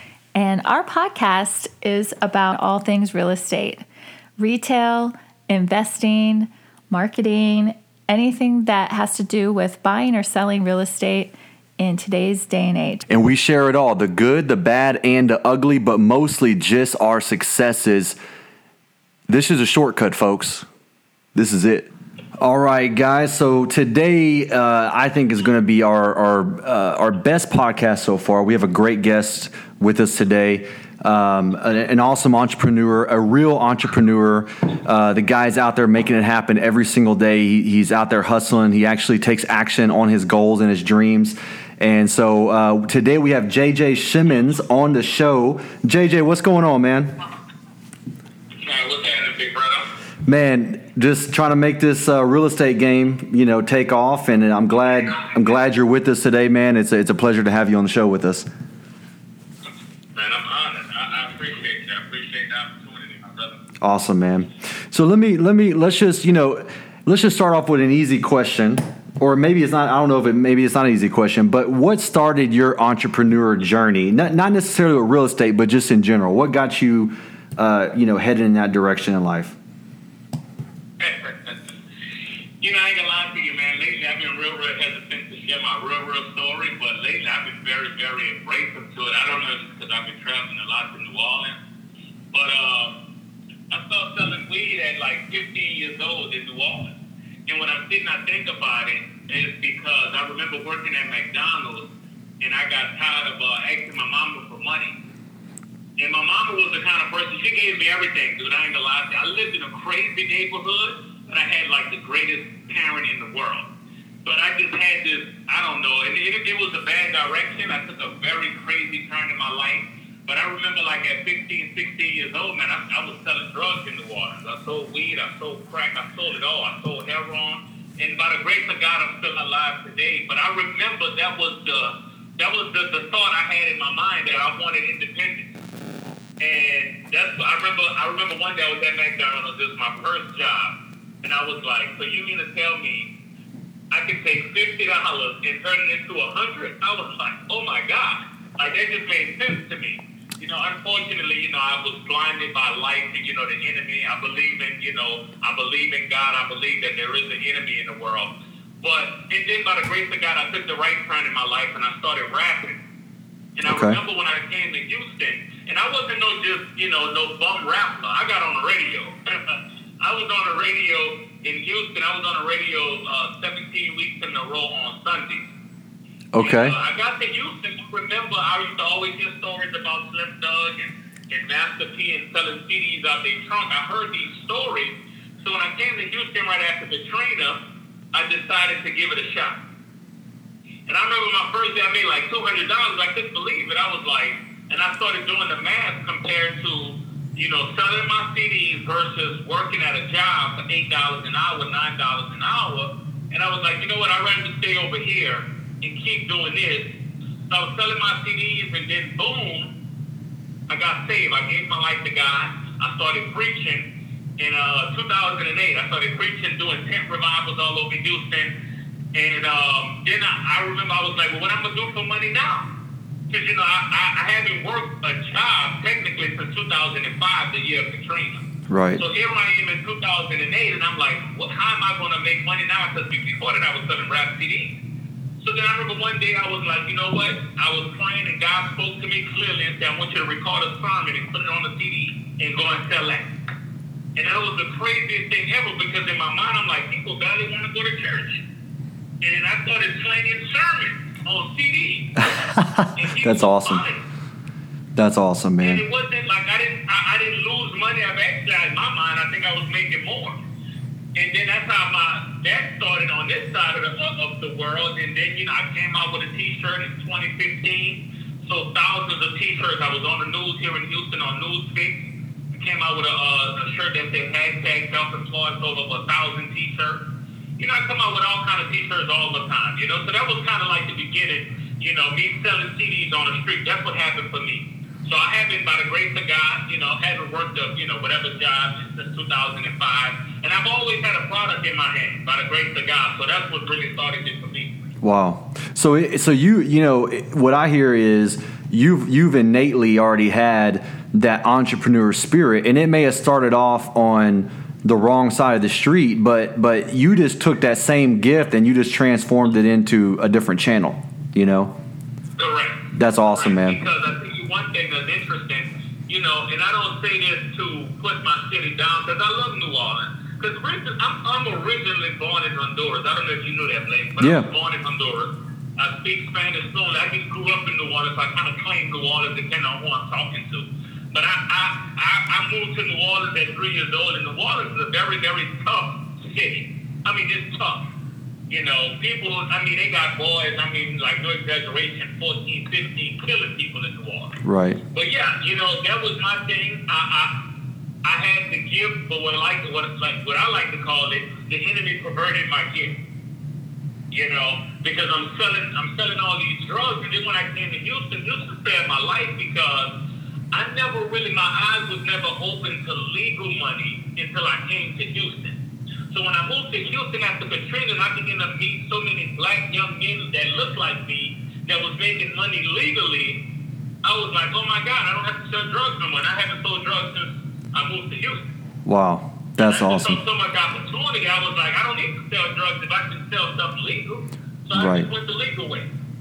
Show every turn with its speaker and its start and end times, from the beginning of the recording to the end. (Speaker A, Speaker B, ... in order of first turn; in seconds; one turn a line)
Speaker A: 0.3-3.8
Speaker A: 4.4-13.1
Speaker B: 13.1-18.2
Speaker B: 19.3-20.6
Speaker B: 21.3-47.1
Speaker C: 48.6-49.9
Speaker B: 50.2-58.5
Speaker C: 60.1-63.6
Speaker B: 63.8-79.5
Speaker C: 81.0-81.7
Speaker C: 82.6-91.6
Speaker C: 92.3-93.0
Speaker C: 93.7-96.9
Speaker C: 97.5-101.9
Speaker C: 102.4-105.0
Speaker C: 106.0-113.7
Speaker C: 114.2-135.5
Speaker C: 136.4-143.1
Speaker C: 143.9-158.3
Speaker C: 158.8-162.8
Speaker C: 163.6-175.4
Speaker B: 163.6-164.0
Speaker B: 176.3-176.8
Speaker C: 176.4-187.6
Speaker C: 188.1-189.6
Speaker C: 190.8-206.9
Speaker C: 207.5-209.7
Speaker C: 210.7-213.9
Speaker C: 214.4-218.5
Speaker C: 219.1-222.7
Speaker C: 223.3-228.4
Speaker B: 228.7-229.0
Speaker C: 229.0-234.8
Speaker C: 235.4-243.3
Speaker C: 244.2-248.4
Speaker C: 249.2-252.2
Speaker B: 252.5-253.8
Speaker C: 252.9-254.0
Speaker B: 254.9-255.8
Speaker C: 255.6-260.4
Speaker C: 261.1-277.0
Speaker C: 277.6-294.7
Speaker B: 295.0-311.7
Speaker C: 312.4-337.8
Speaker B: 312.9-313.8
Speaker B: 324.2-324.5
Speaker C: 338.5-344.4
Speaker B: 344.4-344.8
Speaker C: 344.9-347.4
Speaker C: 348.0-352.9
Speaker C: 354.1-359.9
Speaker C: 360.5-365.6
Speaker C: 366.1-373.4
Speaker C: 374.0-378.4
Speaker B: 378.9-380.2
Speaker C: 379.6-385.9
Speaker B: 384.7-385.1